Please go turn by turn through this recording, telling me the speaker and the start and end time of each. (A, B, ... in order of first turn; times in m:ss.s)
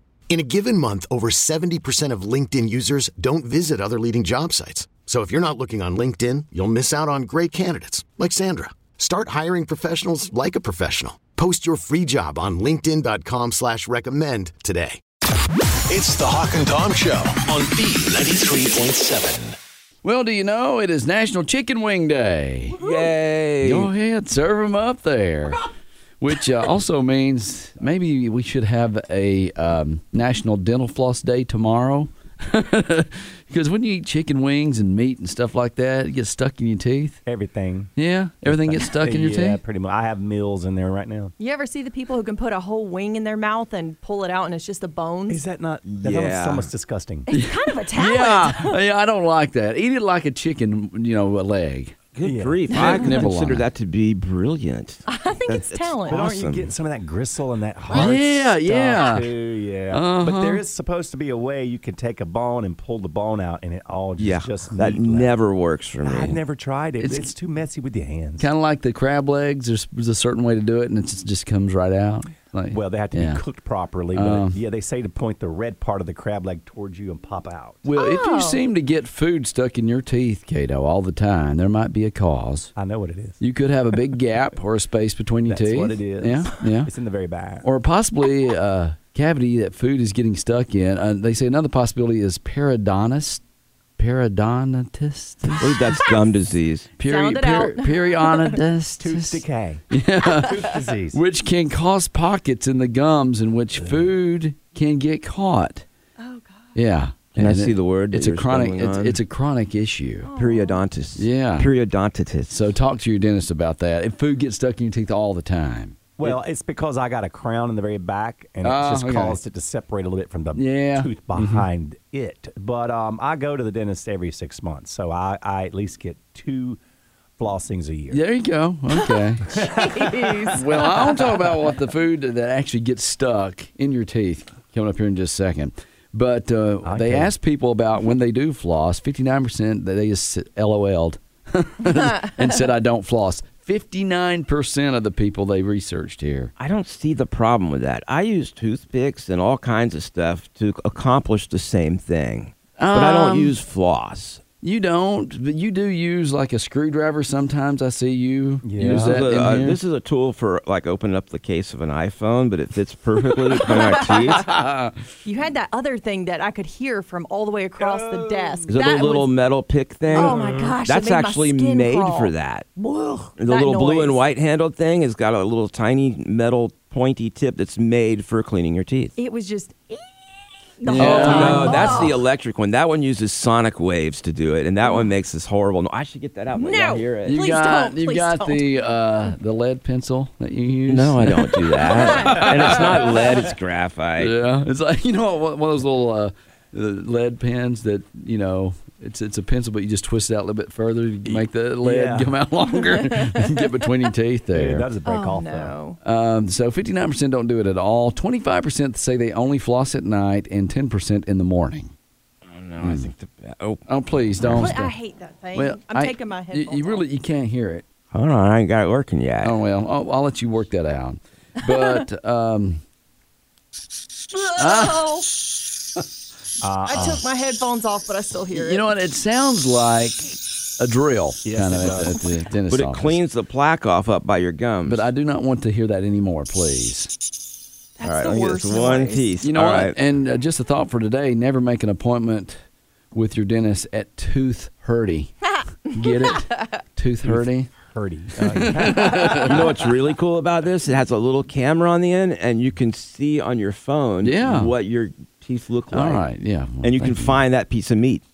0:00.3-0:15.0 A
0:15.9-0:19.6 B
0:20.0-0:22.8 C
0:22.8-0:23.9 D
0:23.6-0:25.6 C
0:26.2-0:37.2 C
0:37.3-0:37.9 E
0:38.0-0:39.6 C
0:38.5-0:41.4 E
0:41.4-0:45.4 F
0:45.3-0:47.3 E
0:45.9-0:46.7 D
0:47.3-0:48.8 F
0:47.3-0:52.0 C
0:52.1-0:56.7 D
0:52.2-0:53.0 E
0:52.7-0:53.7 C
0:55.1-0:56.3 F
0:56.1-1:05.4 E
0:57.9-0:59.4 C
0:59.9-1:00.6 C
1:04.2-1:06.4 D
1:06.1-1:08.5 E
1:07.0-1:07.3 C
1:08.4-1:13.4 C
1:12.7-1:17.8 E
1:14.1-1:14.6 C
1:17.8-1:22.7 C
1:18.0-1:18.6 F
1:22.8-1:23.4 E
1:23.4-1:26.9 C
1:25.5-1:27.7 E
1:27.6-1:33.4 C
1:34.0-1:35.8 C
1:35.6-1:36.9 D
1:37.0-1:45.9 C
1:37.0-1:38.6 F
1:39.0-1:41.2 E
1:43.8-1:44.1 E
1:46.2-1:46.7 F
1:46.8-1:50.3 C
1:47.4-1:49.2 D
1:50.2-1:50.8 F
1:50.4-1:52.6 D
1:51.2-1:51.7 C
1:52.5-1:56.3 C
1:56.2-2:06.8 E
1:58.6-1:59.4 C
2:00.5-2:01.7 C
2:07.4-2:08.2 E
2:08.1-2:09.5 C
2:09.5-2:10.6 E
2:09.6-2:11.0 F
2:10.5-2:26.5 C
2:16.8-2:17.3 E
2:26.6-2:34.4 D
2:32.8-2:33.6 C
2:34.6-2:39.8 C
2:38.6-2:39.2 E
2:38.8-2:44.5 D
2:43.7-2:44.0 F
2:44.4-2:45.0 C
2:45.2-2:49.3 F
2:47.8-2:48.7 E
2:48.7-2:52.7 D
2:50.1-2:50.8 E
2:50.1-2:52.3 F
2:52.8-2:53.4 E
2:53.4-2:59.1 D
2:53.4-2:54.2 F
2:59.2-3:00.2 F
3:00.8-3:02.2 F
3:00.9-3:02.0 C
3:00.9-3:07.4 D
3:06.5-3:08.7 F
3:07.3-3:13.0 C
3:10.9-3:14.4 D
3:11.8-3:13.0 F
3:14.2-3:24.9 C
3:21.3-3:22.4 E
3:24.5-3:25.8 E
3:25.0-3:26.0 F
3:26.0-3:31.9 C
3:32.5-3:33.8 D
3:32.8-3:33.1 C
3:33.9-3:35.0 C
3:34.5-3:37.0 F
3:35.6-3:37.8 C
3:38.1-3:39.6 D
3:39.4-3:42.8 C
3:44.3-3:45.3 F
3:44.6-3:45.1 C
3:46.6-3:47.2 E
3:46.9-3:48.9 F
3:48.5-3:53.2 C
3:51.4-3:52.3 E
3:52.7-3:55.1 D
3:54.8-3:57.1 C
3:58.0-3:59.3 F
3:58.0-4:00.0 D
3:58.7-3:59.2 E
3:59.4-4:02.6 C
4:03.1-4:05.4 C
4:05.9-4:07.7 C
4:05.9-4:06.6 F
4:07.3-4:09.6 E
4:08.4-4:09.6 C
4:09.3-4:16.2 D
4:14.2-4:14.7 C
4:15.9-4:17.4 C
4:16.8-4:18.2 D